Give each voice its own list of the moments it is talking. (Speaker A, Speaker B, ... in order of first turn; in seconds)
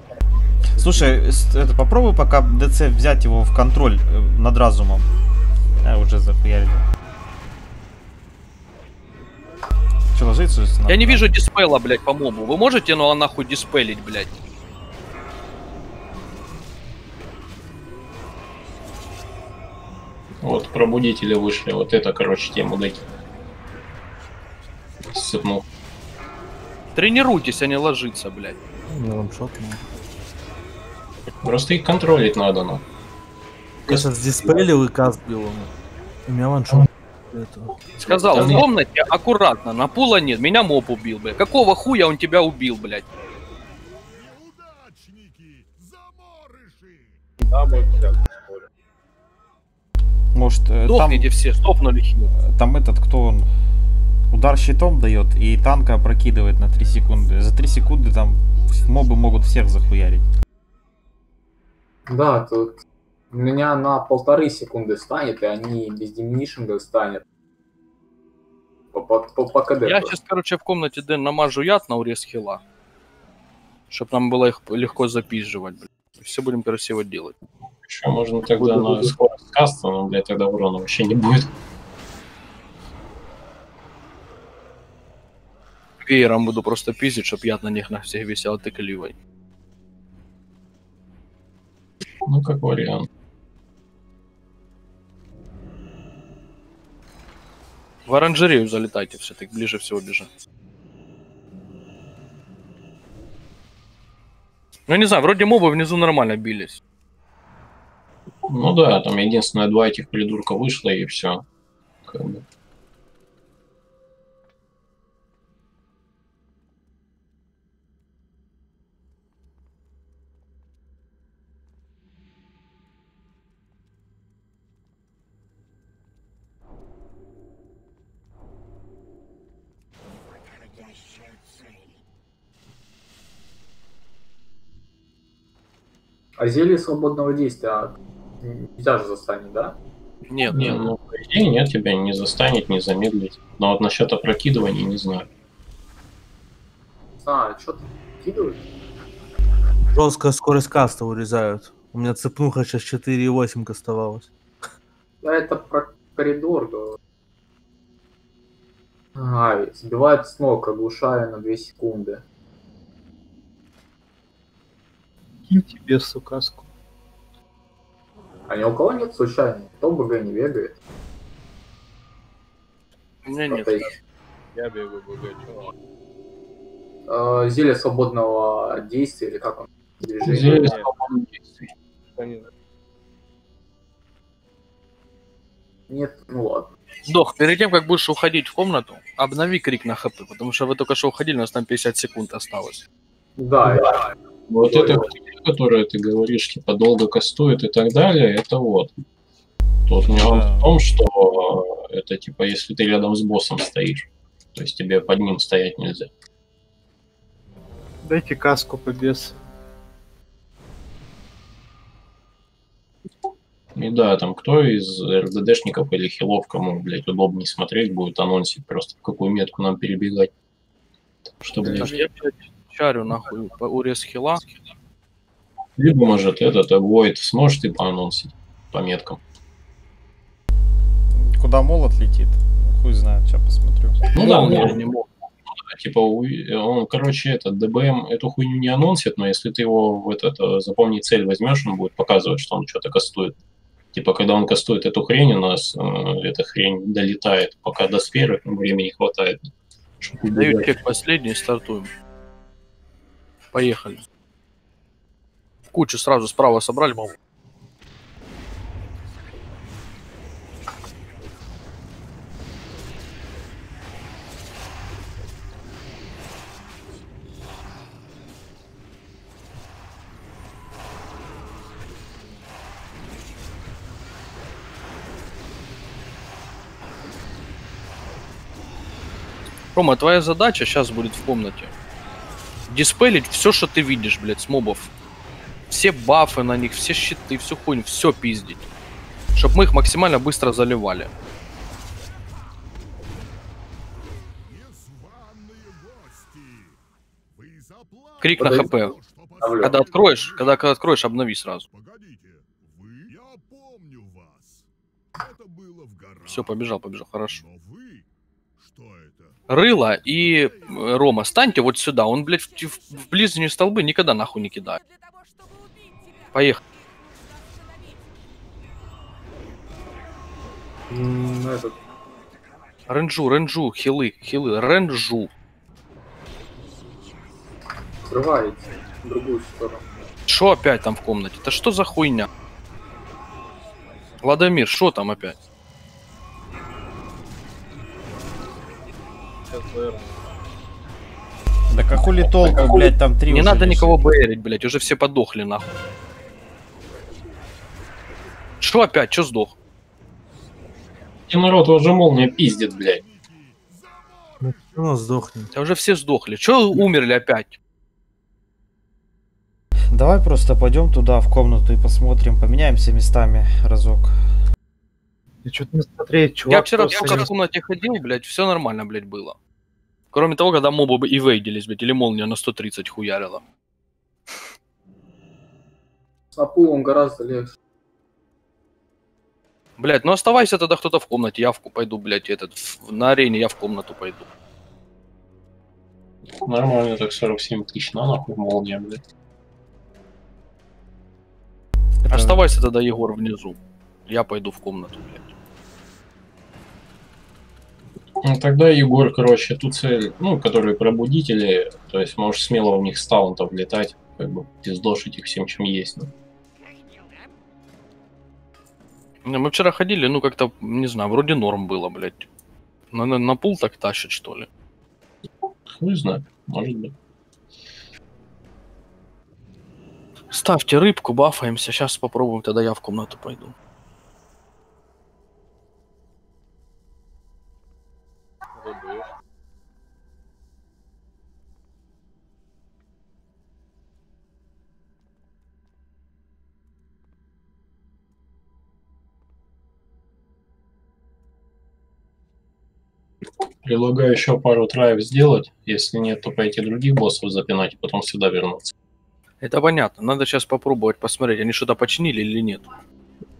Speaker A: 0.8-1.0, 47.4-48.7, 174.5-175.7, 180.3-180.9, 182.1-182.5, 339.4-340.3, 428.6-429.1
Speaker B: 0.8-5.1, 5.8-6.8, 10.1-11.3, 50.3-51.3, 52.4-53.5, 54.3-60.3, 200.0-200.7, 231.1-234.0, 341.7-344.0, 359.9-364.1, 392.0-392.4
Speaker C: 10.9-14.3, 26.9-28.6, 38.0-43.1, 50.9-52.3, 69.8-72.6, 73.9-77.3, 86.0-89.2, 98.0-100.3, 104.9-106.8, 140.3-140.9, 173.2-173.8, 187.1-192.8, 221.8-224.5, 234.1-235.1, 250.3-251.9, 253.5-254.0, 255.7-257.1, 279.7-281.7, 282.7-284.9, 285.7-288.7, 289.3-291.1, 298.2-299.0, 299.6-301.7, 306.2-307.4, 309.5-314.8, 316.3-316.6, 322.9-325.3, 330.3-332.3, 334.2-335.4, 342.2-345.7, 348.6-349.6, 355.5-357.6, 366.5-369.4, 370.1-373.4, 379.8-384.3, 392.1-395.3, 409.2-412.3, 412.9-414.5, 420.3-423.5, 449.4-452.7
Speaker D: 20.4-23.0, 25.1-25.6, 31.4-32.8, 33.9-34.7, 38.0-38.7, 77.8-81.5, 92.2-93.1, 108.5-111.4, 112.0-112.4, 140.5-145.3, 180.2-181.7, 193.6-199.0, 199.9-206.1, 213.8-220.3, 221.4-222.0, 225.8-229.2, 234.1-234.9, 235.4-243.3, 243.9-249.5, 250.0-250.7, 351.3-353.0, 386.4-389.0, 398.2-406.1, 415.7-416.9, 443.6-448.7
Speaker E: 28.9-29.8, 33.9-35.7, 36.3-38.6, 149.9-154.3, 354.4-355.5
Speaker F: 62.1-62.8, 63.3-67.2, 68.9-70.2, 78.6-79.1, 136.4-139.8, 147.2-148.6, 155.2-157.0, 159.2-162.2, 168.5-170.8, 173.5-173.9, 177.1-180.7, 185.9-186.7, 193.4-194.1, 194.6-195.0, 221.6-221.9, 298.4-298.8, 299.4-299.8, 320.9-321.7, 328.1-329.8, 376.3-377.5
Speaker G: 165.5-166.7, 208.0-209.4, 365.4-367.3